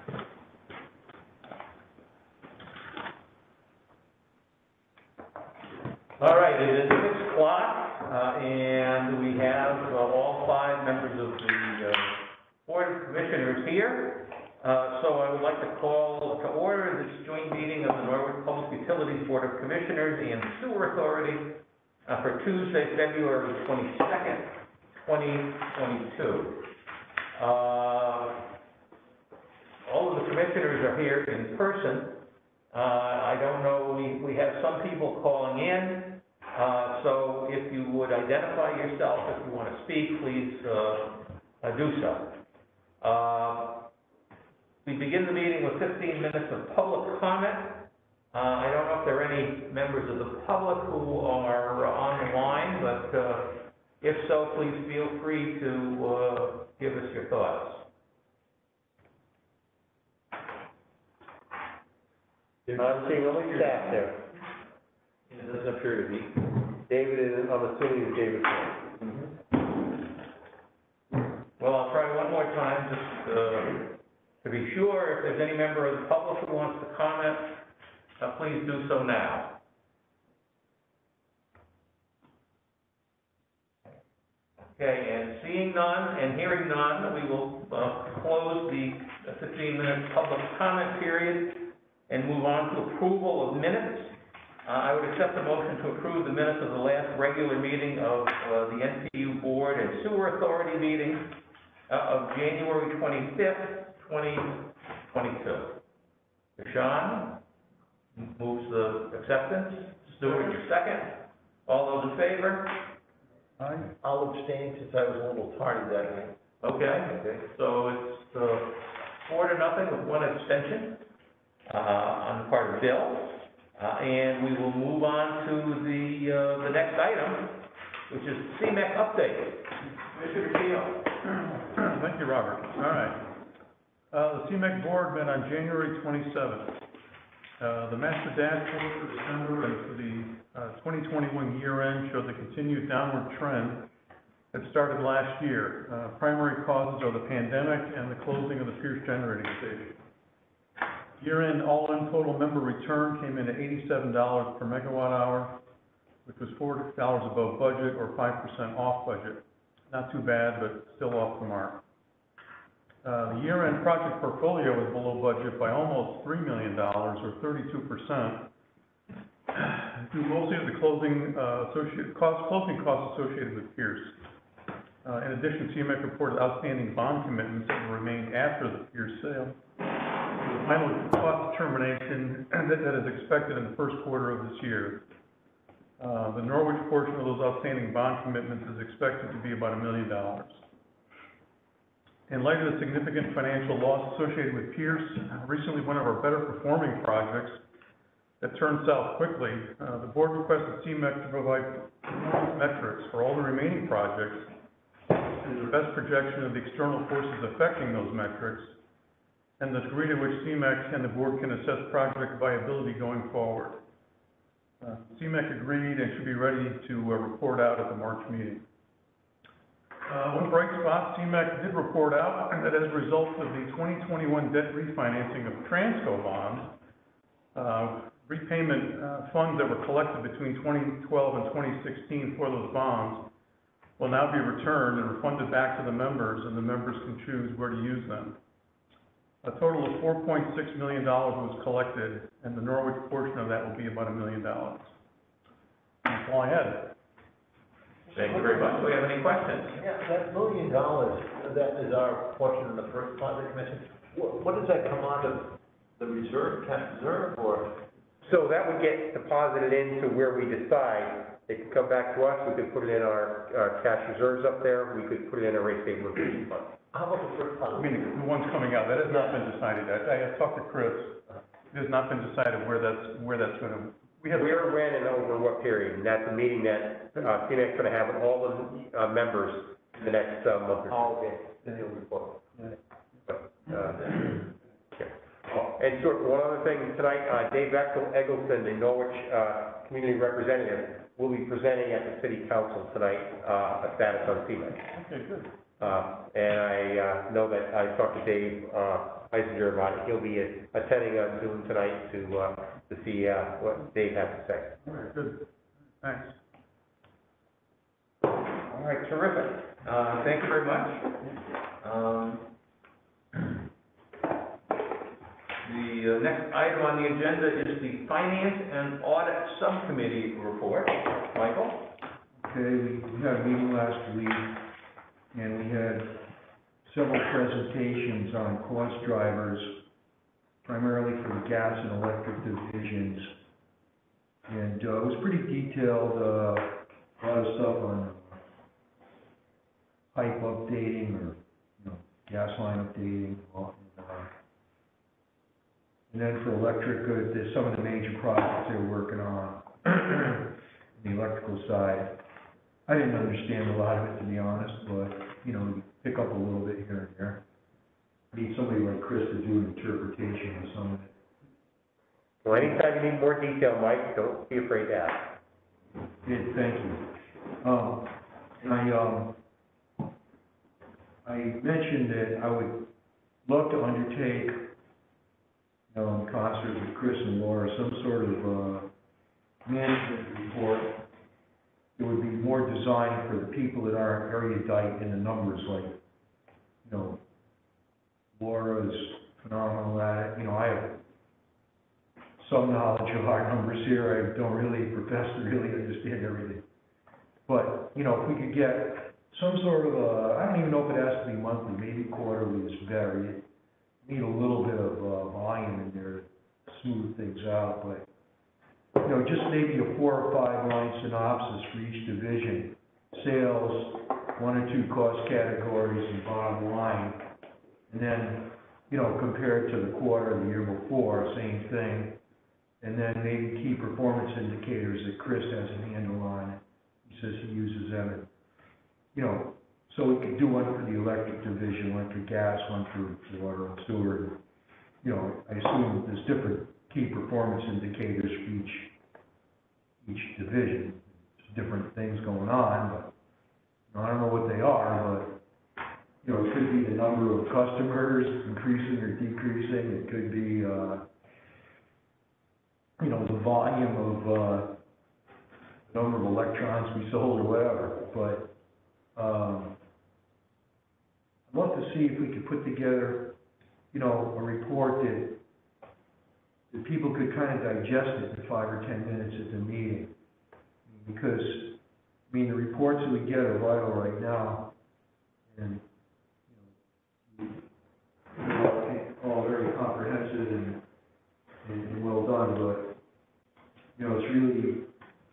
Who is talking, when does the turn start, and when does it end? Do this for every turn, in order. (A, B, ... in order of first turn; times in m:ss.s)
0:06.2-0:26.7 A
0:27.4-0:28.5 A
0:29.8-0:42.4 A
0:43.0-0:43.9 A
0:44.8-0:57.8 A
1:02.7-1:04.1 A
1:02.8-1:04.2 B
1:05.3-1:06.5 A
1:06.9-1:08.9 B
1:09.0-1:09.3 A
1:11.6-1:17.6 A
1:18.2-1:19.6 A
1:24.8-1:41.3 A
1:41.9-1:45.8 A
1:46.6-1:47.4 A
1:48.2-1:52.8 A
1:53.6-1:53.9 C
1:54.0-1:57.4 D
1:56.6-2:01.0 A
2:01.7-2:11.1 A
2:11.3-2:13.3 C
2:14.1-2:16.8 C
2:17.6-2:23.9 C
2:24.5-2:30.0 C
2:31.2-2:35.6 C
2:36.2-2:41.8 C
2:43.0-2:48.5 C
2:49.5-2:54.2 C
2:55.0-2:59.6 C
3:00.4-3:05.0 C
3:06.0-3:10.6 C
3:12.3-3:17.6 C
3:18.4-3:24.5 C
3:25.4-3:28.7 C
3:29.6-3:33.8 C
3:34.8-3:38.6 C
3:40.1-3:46.7 C
3:47.5-3:53.3 C
3:54.0-3:58.4 C
3:59.4-4:04.9 C
4:06.0-4:06.9 C
4:08.1-4:08.9 D
4:08.1-4:09.8 A
4:09.7-4:17.8 D
4:18.2-4:26.7 B
4:26.9-4:28.2 D
4:27.7-4:31.2 C
4:31.7-4:34.7 C
4:34.3-4:41.1 B
4:43.3-4:44.4 B
4:45.0-4:54.8 B
4:54.9-4:55.5 C
4:55.8-5:04.8 B
5:04.8-5:05.5 C
5:06.0-5:06.3 C
5:08.7-5:11.1 A
5:11.8-5:12.5 A
5:15.6-5:21.9 A
5:22.4-5:24.7 E
5:25.3-5:26.2 E
5:26.8-5:29.8 E
5:30.6-5:33.4 E
5:34.5-5:38.4 E
5:40.1-5:44.3 E
5:46.1-5:52.2 E
5:52.9-5:57.4 E
5:58.3-6:01.1 E
6:02.4-6:05.4 B
6:06.2-6:09.4 E
6:11.2-6:12.9 E
6:13.4-6:14.7 E
6:15.9-6:18.9 E
6:19.6-6:21.0 E
6:22.0-6:26.0 E
6:26.8-6:27.2 E
6:28.4-6:31.0 E
6:32.4-6:36.7 E
6:37.5-6:43.5 E
6:44.0-6:48.1 E
6:49.0-6:57.3 E
6:57.9-7:02.2 E
7:02.8-7:08.3 E
7:09.1-7:14.4 E
7:15.0-7:18.9 E
7:20.0-7:23.1 E
7:23.9-7:25.4 E
7:26.2-7:31.1 E
7:33.0-7:34.8 E
7:35.9-7:38.5 E
7:39.2-7:39.8 E
7:41.5-7:43.4 E
7:43.9-7:45.4 E
7:46.7-7:50.1 E
7:50.9-7:51.8 E
7:52.3-7:54.7 E
7:55.5-7:55.8 E
7:56.5-7:56.8 E
7:57.3-7:57.6 E
7:58.3-8:00.8 E
8:01.6-8:03.0 E
8:04.0-8:04.9 E